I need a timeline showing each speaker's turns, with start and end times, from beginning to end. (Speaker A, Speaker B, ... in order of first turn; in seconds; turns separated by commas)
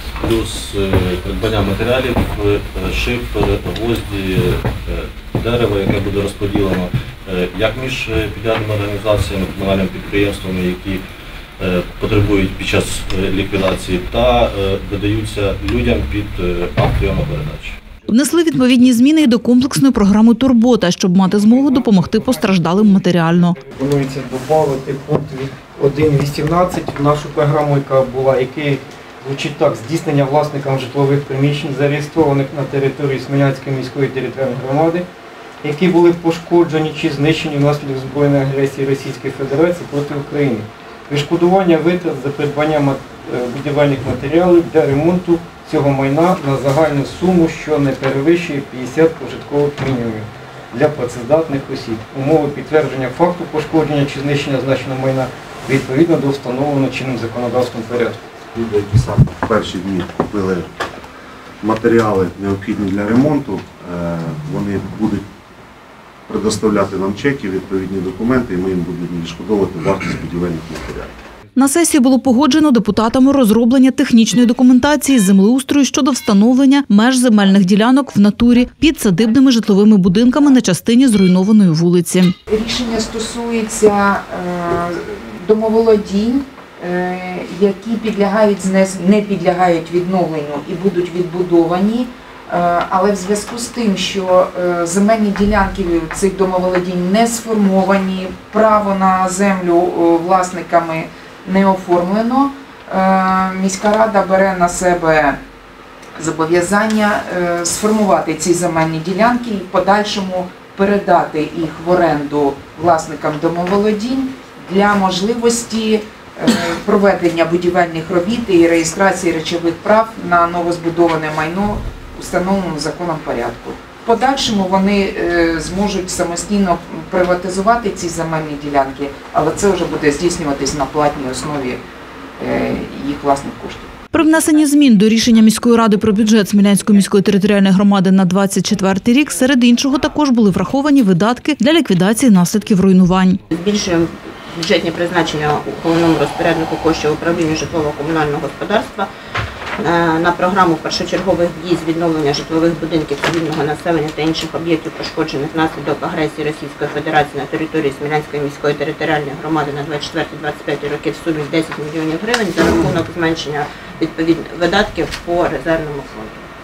Speaker A: 0.2-11.0, Speaker A: 11.6-17.8, Speaker B: 18.1-23.6, Speaker C: 21.5-23.0, Speaker C: 23.6-35.0, Speaker C: 35.6-58.2, Speaker D: 58.5-60.7, Speaker D: 61.6-65.3, Speaker D: 66.3-71.1, Speaker B: 71.5-82.3, Speaker E: 82.5-105.4, Speaker E: 106.2-131.8, Speaker E: 132.4-133.9, Speaker B: 134.1-143.4, Speaker F: 143.5-149.1, Speaker F: 149.8-166.4